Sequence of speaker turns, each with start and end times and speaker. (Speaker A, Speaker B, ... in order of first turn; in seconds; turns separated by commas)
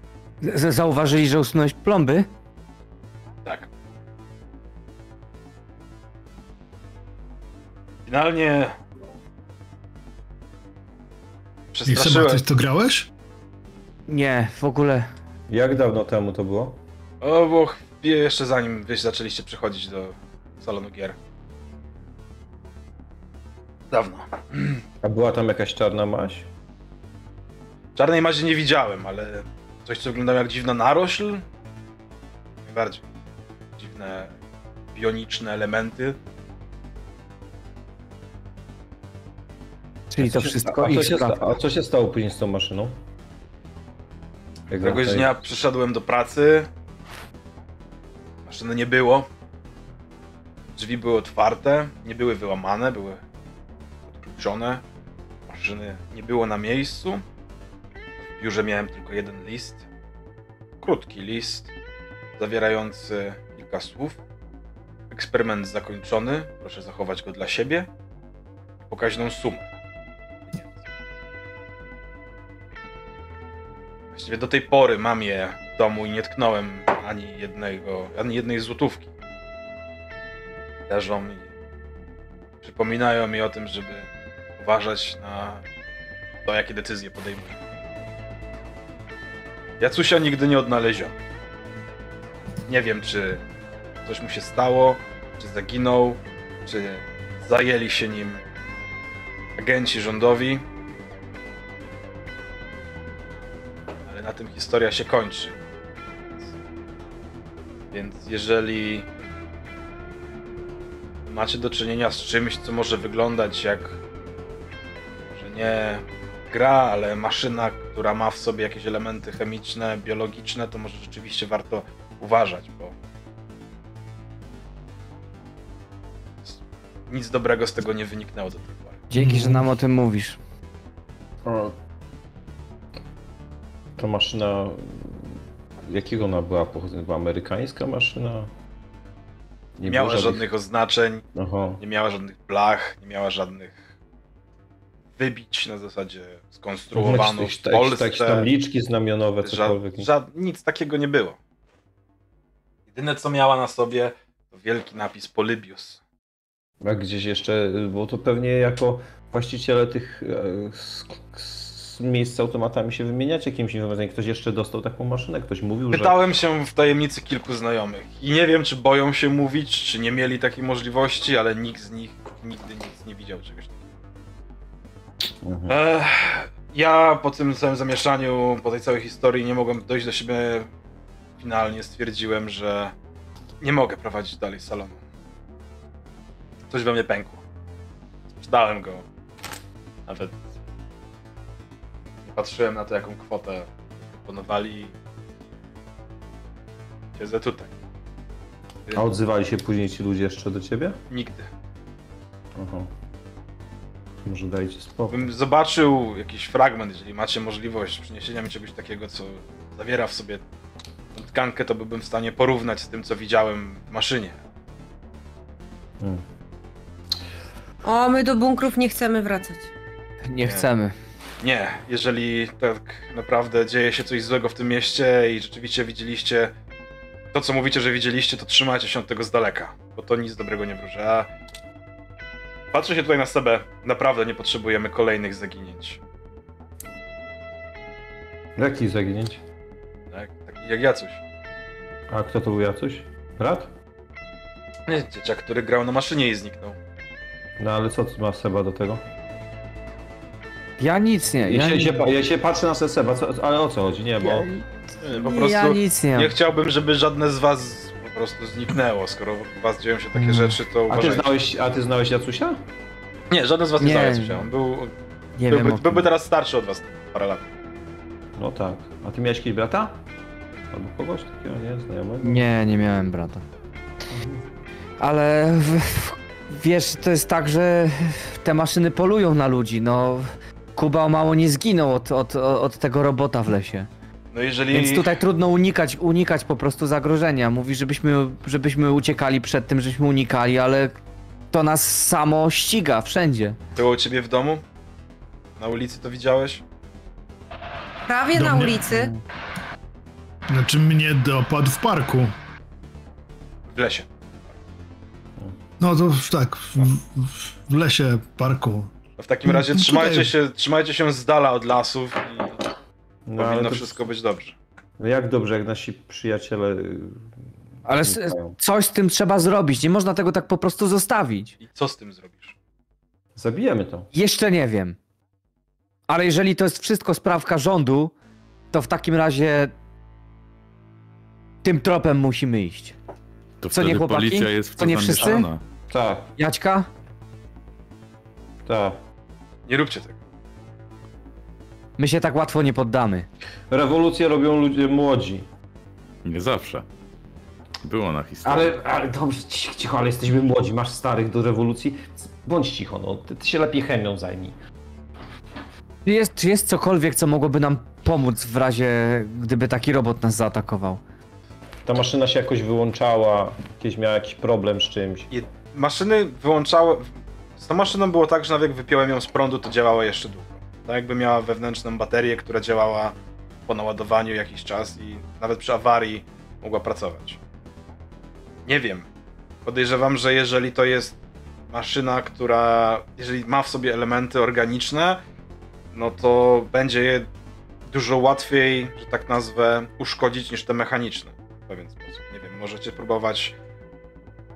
Speaker A: 0.4-2.3, Speaker B: 8.1-8.7, Speaker B: 11.7-12.4, Speaker C: 11.8-13.1, Speaker A: 14.1-15.1, Speaker D: 15.5-16.8, Speaker B: 17.2-21.1, Speaker B: 23.9-24.8, Speaker D: 25.0-26.5, Speaker B: 27.9-31.4, Speaker B: 32.6-33.0, Speaker B: 33.8-34.3, Speaker B: 34.9-36.2, Speaker A: 40.1-41.5, Speaker D: 40.2-43.0, Speaker D: 44.7-45.3, Speaker B: 44.8-46.7, Speaker B: 48.5-49.3, Speaker B: 50.8-53.2, Speaker B: 54.1-54.8, Speaker B: 55.5-57.2, Speaker B: 58.2-59.8, Speaker B: 60.8-61.7, Speaker B: 62.4-64.2, Speaker B: 65.1-67.9, Speaker B: 68.9-69.7, Speaker B: 70.5-70.7, Speaker B: 74.1-79.1, Speaker B: 80.9-81.5, Speaker B: 82.6-84.1, Speaker B: 84.6-85.6, Speaker B: 86.4-87.5, Speaker B: 89.8-91.1, Speaker B: 92.7-93.4, Speaker B: 94.0-98.4, Speaker B: 99.6-100.6, Speaker B: 104.1-105.6, Speaker B: 107.9-109.0, Speaker B: 111.2-114.0, Speaker B: 115.3-122.9, Speaker B: 127.1-129.0, Speaker A: 129.1-130.4, Speaker C: 129.2-129.6, Speaker D: 131.4-131.8, Speaker D: 134.0-135.3, Speaker D: 135.8-138.5, Speaker D: 139.8-140.4, Speaker B: 139.8-141.2, Speaker D: 141.3-141.8, Speaker B: 141.8-143.8, Speaker B: 145.2-148.5, Speaker D: 146.9-150.1, Speaker B: 149.4-151.4, Speaker B: 152.9-156.0, Speaker D: 156.8-166.2, Speaker B: 165.9-173.8, Speaker D: 175.4-175.8, Speaker B: 175.7-180.7, Speaker B: 181.4-182.9, Speaker B: 183.6-185.0, Speaker B: 186.7-187.4, Speaker B: 188.4-189.0, Speaker B: 190.1-190.4, Speaker B: 192.2-194.9, Speaker B: 197.2-197.7, Speaker D: 198.9-201.0, Speaker B: 201.1-201.5, Speaker D: 202.6-202.9, Speaker D: 204.2-205.2, Speaker B: 205.1-210.4, Speaker B: 211.1-214.4, Speaker E: 217.8-219.7, Speaker A: 220.3-220.9, Speaker B: 221.4-226.5, Speaker B: 227.3-231.3, Speaker B: 232.7-236.0, Speaker D: 238.6-239.4, Speaker B: 240.1-241.2, Speaker D: 242.1-243.7, Speaker B: 244.9-246.8, Speaker D: 247.6-249.0, Speaker A: 250.8-252.0, Speaker D: 251.5-254.5, Speaker A: 254.2-254.7, Speaker B: 255.0-261.3, Speaker A: 255.2-256.3, Speaker A: 260.1-260.6, Speaker D: 260.9-262.6, Speaker B: 263.3-264.9, Speaker A: 263.8-264.4, Speaker A: 265.4-266.1, Speaker B: 265.5-267.4, Speaker D: 268.4-270.0, Speaker D: 270.7-272.4, Speaker A: 272.2-273.4, Speaker D: 274.1-274.4, Speaker A: 275.0-283.9, Speaker B: 284.3-285.2, Speaker A: 284.7-290.9, Speaker A: 291.5-293.6, Speaker B: 293.8-294.6, Speaker B: 295.6-296.6, Speaker E: 298.1-299.1, Speaker C: 298.3-298.9, Speaker A: 298.9-299.2, Speaker C: 300.5-302.3, Speaker B: 303.7-304.1, Speaker C: 305.8-308.9, Speaker B: 309.2-312.6, Speaker C: 309.4-310.3, Speaker D: 313.2-314.0, Speaker B: 313.4-314.6, Speaker D: 315.0-317.2, Speaker A: 317.9-321.5, Speaker D: 317.9-318.5, Speaker B: 321.6-322.5, Speaker D: 323.4-324.1, Speaker A: 324.1-325.0, Speaker A: 326.1-328.1, Speaker A: 328.7-329.7, Speaker A: 331.6-332.9, Speaker F: 333.6-335.6, Speaker A: 333.7-335.5, Speaker D: 335.9-336.3, Speaker A: 336.4-336.9, Speaker D: 338.6-339.0, Speaker B: 339.7-340.1, Speaker A: 342.0-343.3, Speaker D: 343.7-345.5, Speaker F: 346.2-346.8, Speaker F: 347.8-348.7, Speaker D: 348.4-354.6, Speaker A: 356.0-361.0, Speaker D: 361.9-365.3, Speaker B: 365.3-373.1, Speaker B: 373.7-377.4, Speaker B: 378.6-379.1, Speaker B: 379.6-381.2, Speaker B: 381.7-385.2, Speaker B: 385.9-387.3, Speaker B: 387.9-393.5